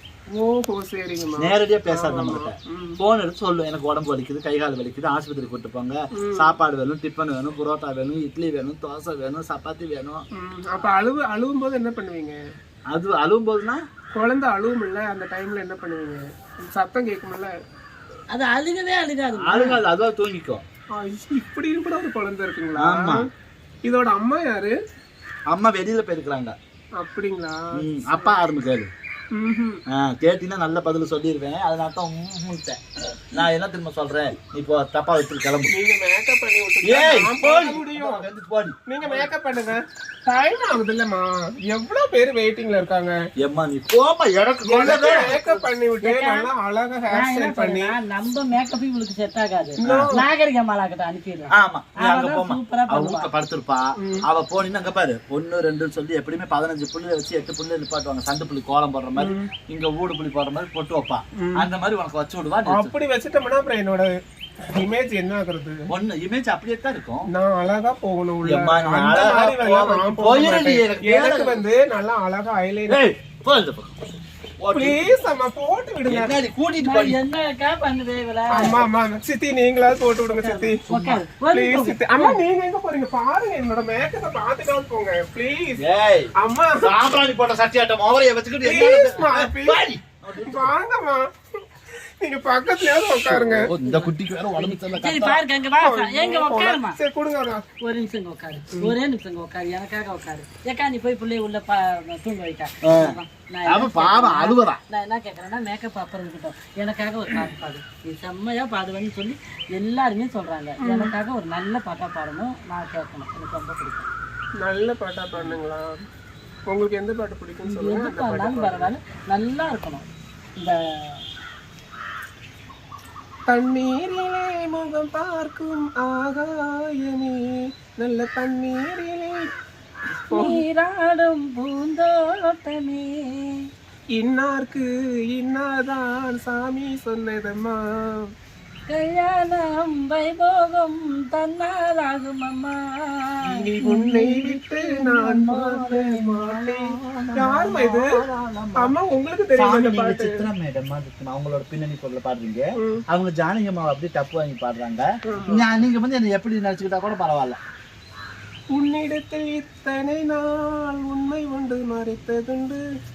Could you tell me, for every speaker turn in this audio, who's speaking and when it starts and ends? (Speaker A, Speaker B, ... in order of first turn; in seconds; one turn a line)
Speaker A: 0.3-3.0
Speaker B: 1.3-10.2
Speaker A: 6.2-6.6
Speaker A: 10.3-12.4
Speaker B: 12.9-13.8
Speaker A: 14.2-17.6
Speaker C: 18.3-19.8
Speaker B: 19.4-20.6
Speaker A: 21.0-23.3
Speaker B: 22.8-23.3
Speaker A: 23.9-24.8
Speaker B: 25.5-26.6
Speaker A: 27.0-28.4
Speaker B: 27.8-28.9
Speaker A: 29.3-29.8
Speaker B: 29.9-32.8
Speaker B: 33.3-35.7
Speaker A: 35.7-38.2
Speaker B: 36.9-39.3
Speaker A: 38.9-43.1
Speaker B: 43.4-45.7
Speaker A: 44.7-48.0
Speaker C: 46.0-46.5
Speaker C: 47.1-53.3
Speaker A: 49.8-50.2
Speaker B: 49.8-50.1
Speaker B: 51.5-62.9
Speaker A: 54.0-54.3
Speaker A: 59.2-59.5
Speaker A: 61.4-61.7
Speaker A: 62.7-64.2
Speaker A: 64.7-65.8
Speaker B: 65.9-67.3
Speaker A: 67.3-73.0
Speaker B: 68.4-71.6
Speaker B: 72.9-73.9
Speaker B: 74.6-75.1
Speaker A: 74.7-76.4
Speaker B: 76.1-77.2
Speaker C: 76.8-78.8
Speaker A: 78.5-85.8
Speaker B: 78.6-78.9
Speaker C: 80.3-82.4
Speaker B: 85.8-90.7
Speaker A: 86.4-86.9
Speaker A: 88.6-89.9
Speaker A: 90.4-91.6
Speaker A: 92.2-93.7
Speaker B: 93.2-95.4
Speaker C: 93.8-97.0
Speaker A: 95.8-97.6
Speaker C: 97.8-114.1
Speaker B: 102.8-103.2
Speaker B: 103.7-104.8
Speaker A: 110.8-111.1
Speaker A: 114.6-116.0
Speaker A: 116.7-118.9
Speaker C: 117.7-120.1
Speaker C: 120.6-121.2
Speaker A: 123.5-129.5
Speaker A: 130.3-130.6
Speaker C: 130.3-133.7
Speaker A: 134.1-138.3
Speaker C: 138.9-143.4
Speaker B: 143.5-148.9
Speaker A: 143.6-146.8
Speaker A: 147.4-148.1
Speaker A: 148.8-150.5
Speaker B: 149.6-157.6
Speaker A: 152.8-153.0
Speaker A: 155.3-155.7
Speaker A: 158.7-162.8